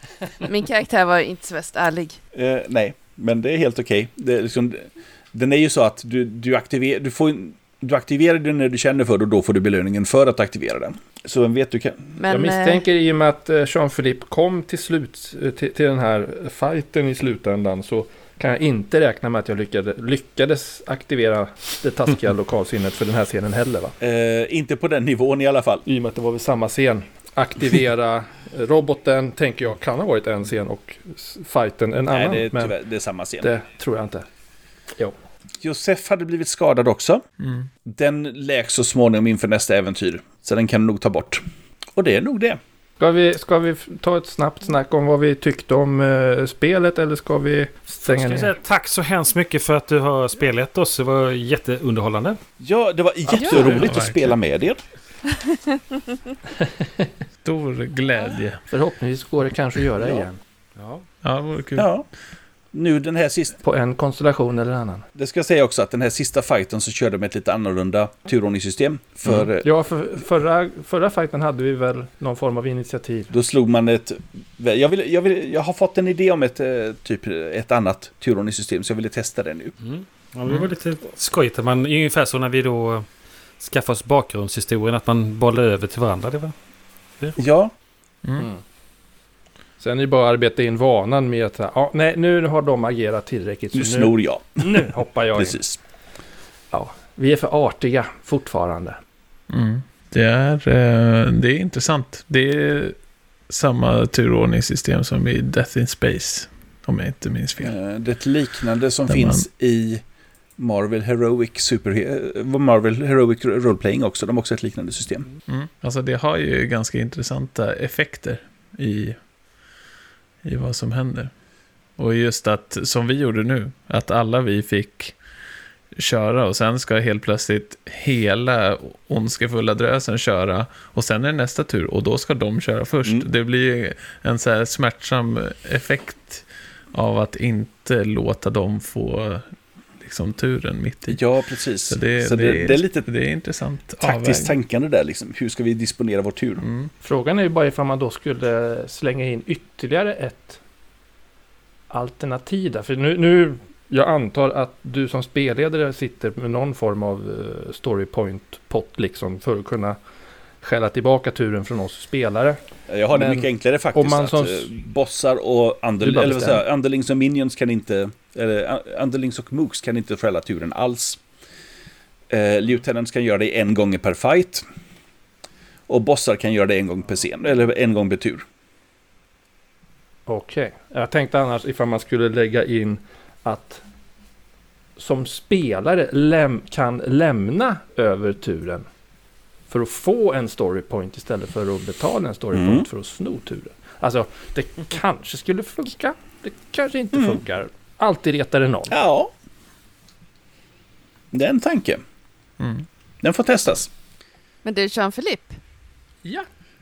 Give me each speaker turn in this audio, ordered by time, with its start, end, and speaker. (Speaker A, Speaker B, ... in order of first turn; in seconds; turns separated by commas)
Speaker A: 0.4-2.2, Speaker B: 2.3-12.2, Speaker A: 12.2-12.8, Speaker C: 12.3-23.9, Speaker B: 24.0-25.9, Speaker C: 25.9-32.7, Speaker B: 32.1-33.5, Speaker C: 33.4-34.3, Speaker B: 35.6-37.2, Speaker D: 37.4-37.7, Speaker B: 37.9-41.4, Speaker B: 42.0-42.6, Speaker C: 43.0-48.5, Speaker E: 48.0-52.4, Speaker B: 52.6-54.8, Speaker D: 53.4-54.4, Speaker C: 56.6-57.1, Speaker D: 57.4-58.6, Speaker C: 58.7-60.4, Speaker E: 60.8-61.0, Speaker D: 61.2-61.9, Speaker B: 61.8-62.1, Speaker B: 62.7-63.6, Speaker C: 63.6-65.0, Speaker B: 65.2-69.7, Speaker C: 69.6-73.3, Speaker B: 73.3-79.8, Speaker E: 79.8-83.1, Speaker E: 83.6-86.5, Speaker B: 87.4-87.7, Speaker C: 89.8-95.6, Speaker B: 93.7-95.8, Speaker C: 96.7-99.0, Speaker D: 99.5-103.0, Speaker D: 103.5-107.7, Speaker B: 107.6-110.0, Speaker D: 109.1-109.5, Speaker B: 110.6-115.3, Speaker D: 115.5-119.2, Speaker D: 120.4-121.3, Speaker D: 122.0-125.2, Speaker D: 126.0-139.4, Speaker D: 140.0-141.2, Speaker B: 141.1-143.1, Speaker D: 141.9-144.6, Speaker B: 144.0-146.7, Speaker D: 146.6-146.9, Speaker C: 147.0-150.6, Speaker C: 151.9-160.0, Speaker C: 160.6-162.6, Speaker B: 162.9-171.2, Speaker C: 163.1-164.8, Speaker C: 166.0-166.6, Speaker B: 172.3-174.6, Speaker B: 175.9-178.4, Speaker C: 180.3-183.8, Speaker C: 185.0-188.9, Speaker C: 189.7-199.0, Speaker B: 192.5-192.9, Speaker B: 198.9-199.3, Speaker B: 201.3-202.0, Speaker D: 202.6-202.9, Speaker B: 203.2-203.9, Speaker A: 204.6-205.6